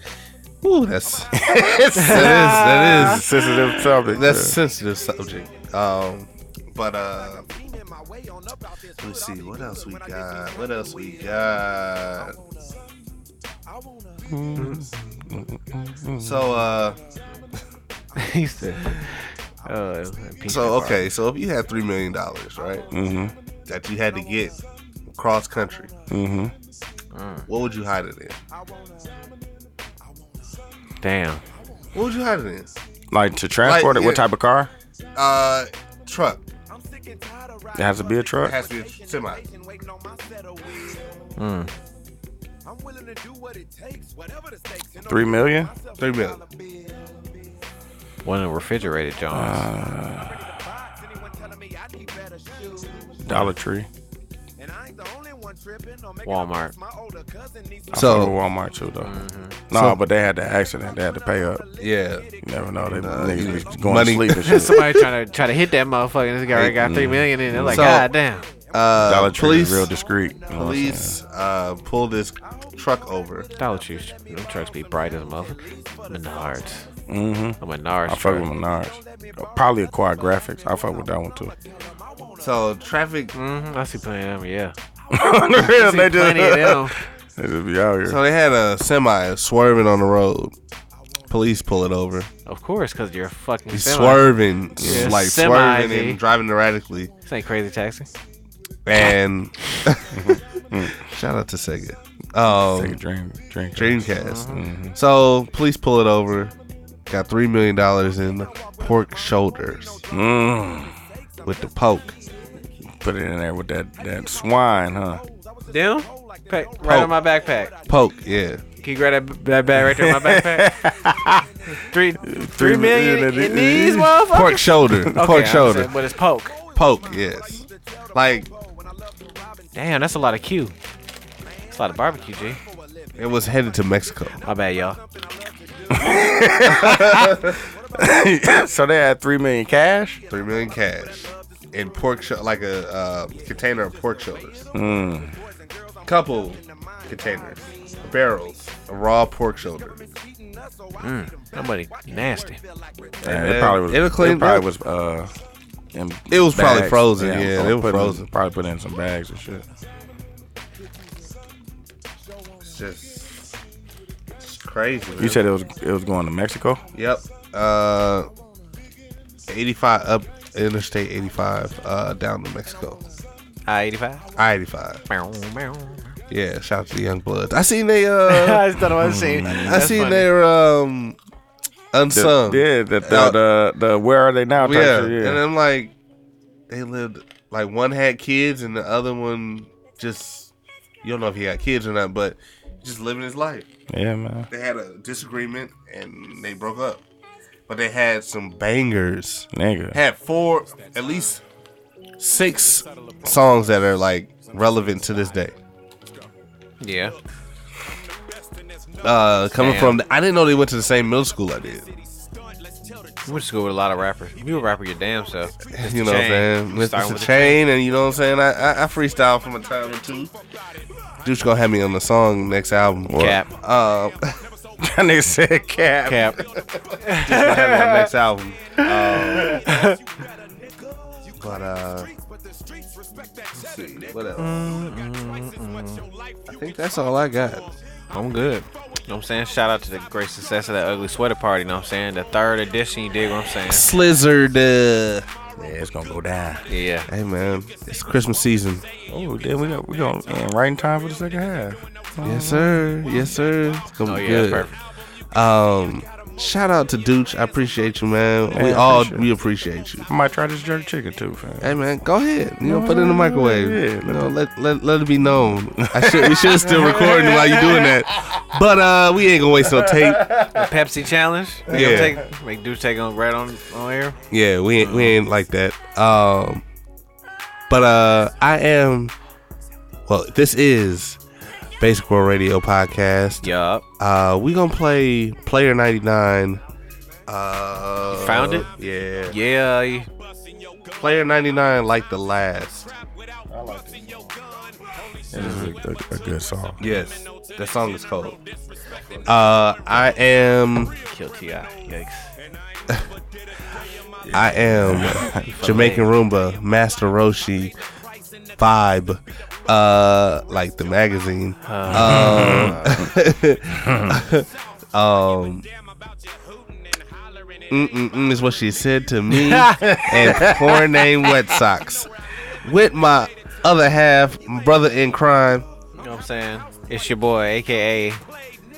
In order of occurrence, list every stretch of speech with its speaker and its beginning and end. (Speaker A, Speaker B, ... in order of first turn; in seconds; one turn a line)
Speaker A: 0.6-1.4
Speaker B: 1.4-4.6
Speaker A: 1.9-7.5
Speaker C: 2.0-3.2
Speaker A: 9.0-12.4
Speaker B: 14.3-16.5
Speaker A: 16.2-17.0
Speaker C: 18.1-21.1
Speaker A: 20.4-22.9
Speaker B: 22.9-23.3
Speaker A: 23.6-24.6
Speaker A: 25.1-25.9
Speaker B: 26.1-26.5
Speaker C: 27.1-27.4
Speaker A: 27.5-28.4
Speaker C: 31.0-31.4
Speaker A: 31.9-32.8
Speaker B: 33.1-34.7
Speaker A: 33.6-34.2
Speaker A: 35.1-36.4
Speaker B: 37.7-38.5
Speaker A: 38.4-39.4
Speaker C: 41.4-41.7
Speaker B: 45.0-45.7
Speaker A: 46.0-46.4
Speaker C: 48.2-49.7
Speaker B: 49.3-50.5
Speaker B: 53.2-53.9
Speaker C: 56.2-56.7
Speaker A: 57.9-58.4
Speaker B: 57.9-59.1
Speaker C: 59.0-59.5
Speaker B: 59.7-61.6
Speaker A: 59.7-60.0
Speaker A: 61.8-62.3
Speaker B: 62.4-64.8
Speaker A: 62.9-65.0
Speaker C: 64.5-68.4
Speaker A: 66.5-66.8
Speaker B: 66.7-68.0
Speaker A: 67.7-68.1
Speaker A: 68.7-69.9
Speaker B: 69.0-71.1
Speaker A: 70.5-73.5
Speaker C: 73.6-76.9
Speaker B: 77.1-81.5
Speaker C: 77.6-78.5
Speaker A: 82.4-83.3
Speaker C: 83.3-84.7
Speaker B: 85.1-88.2
Speaker C: 85.6-86.9
Speaker A: 88.0-90.5
Speaker A: 91.3-92.3
Speaker C: 92.5-96.2
Speaker A: 93.7-97.1
Speaker B: 94.8-95.2
Speaker C: 97.2-98.1
Speaker A: 98.8-100.4
Speaker B: 100.1-101.0
Speaker A: 101.0-103.0
Speaker B: 102.5-105.0
Speaker A: 103.7-106.5
Speaker C: 104.2-104.6
Speaker A: 107.1-110.0
Speaker B: 110.1-110.9
Speaker A: 111.4-112.2
Speaker B: 113.0-115.2
Speaker C: 115.7-117.7
Speaker A: 116.8-117.1
Speaker A: 117.9-118.6
Speaker C: 118.8-120.7
Speaker B: 119.8-121.5
Speaker C: 121.7-126.5
Speaker B: 122.2-124.1
Speaker A: 124.3-125.9
Speaker A: 126.7-128.5
Speaker C: 129.7-130.7
Speaker C: 131.7-132.6
Speaker A: 133.2-134.4
Speaker C: 134.4-135.0
Speaker B: 135.9-140.2
Speaker A: 136.7-137.6
Speaker A: 140.3-144.7
Speaker B: 144.7-145.3
Speaker A: 146.0-150.0
Speaker C: 151.0-152.6
Speaker A: 153.2-154.7
Speaker B: 153.2-155.3
Speaker B: 155.9-159.6
Speaker A: 156.3-158.2
Speaker A: 162.6-163.5
Speaker A: 164.4-165.4
Speaker B: 165.2-166.8
Speaker A: 166.9-168.3
Speaker A: 169.5-173.0
Speaker C: 173.7-174.2
Speaker A: 174.3-175.0
Speaker C: 175.1-176.1
Speaker A: 176.3-178.7
Speaker C: 178.3-180.3
Speaker B: 178.9-180.1
Speaker A: 179.4-181.2
Speaker A: 181.9-183.4
Speaker B: 182.1-185.4
Speaker A: 184.5-185.9
Speaker A: 186.7-190.5
Speaker A: 191.0-193.7
Speaker B: 193.9-194.5
Speaker A: 194.5-197.0
Speaker A: 197.7-201.4
Speaker B: 199.5-200.0
Speaker A: 202.2-205.5
Speaker C: 206.8-207.1
Speaker A: 209.0-211.9
Speaker C: 209.6-210.0
Speaker C: 213.2-217.6
Speaker A: 215.7-220.3
Speaker A: 221.2-224.3
Speaker B: 223.1-223.4
Speaker C: 223.1-223.5
Speaker B: 224.8-226.4
Speaker C: 226.0-226.4
Speaker C: 227.1-228.0
Speaker A: 227.1-229.7
Speaker C: 229.4-230.0
Speaker A: 231.3-232.1
Speaker A: 233.5-234.7
Speaker C: 234.4-236.0
Speaker A: 236.5-237.7
Speaker C: 238.1-243.9
Speaker A: 243.7-245.3
Speaker B: 245.6-246.6
Speaker C: 246.7-247.1
Speaker A: 247.1-248.8
Speaker B: 249.1-252.7
Speaker A: 252.2-254.7
Speaker C: 254.0-254.8
Speaker A: 255.3-260.1
Speaker B: 258.5-259.2
Speaker B: 260.1-261.7
Speaker A: 261.6-270.3
Speaker B: 262.6-264.3
Speaker B: 265.9-268.4
Speaker B: 269.9-270.7
Speaker C: 270.5-274.2
Speaker A: 271.7-272.2
Speaker A: 274.3-276.6
Speaker C: 274.8-275.2
Speaker A: 277.7-279.1
Speaker A: 280.1-281.2
Speaker A: 281.8-286.6
Speaker C: 283.4-283.8
Speaker A: 287.3-289.4
Speaker C: 288.1-288.7
Speaker C: 289.3-290.1
Speaker A: 291.0-292.9
Speaker B: 293.5-294.3
Speaker B: 295.3-296.8
Speaker C: 295.4-295.7
Speaker A: 296.8-298.4
Speaker A: 299.2-300.9
Speaker C: 301.1-302.3
Speaker B: 304.2-305.4
Speaker A: 304.3-307.8
Speaker C: 305.4-306.1
Speaker A: 308.6-315.7
Speaker C: 311.6-313.0
Speaker B: 311.9-313.1
Speaker B: 313.8-314.2
Speaker A: 317.7-322.1
Speaker C: 319.3-320.5
Speaker B: 319.8-320.8
Speaker A: 322.6-325.7
Speaker C: 326.0-328.2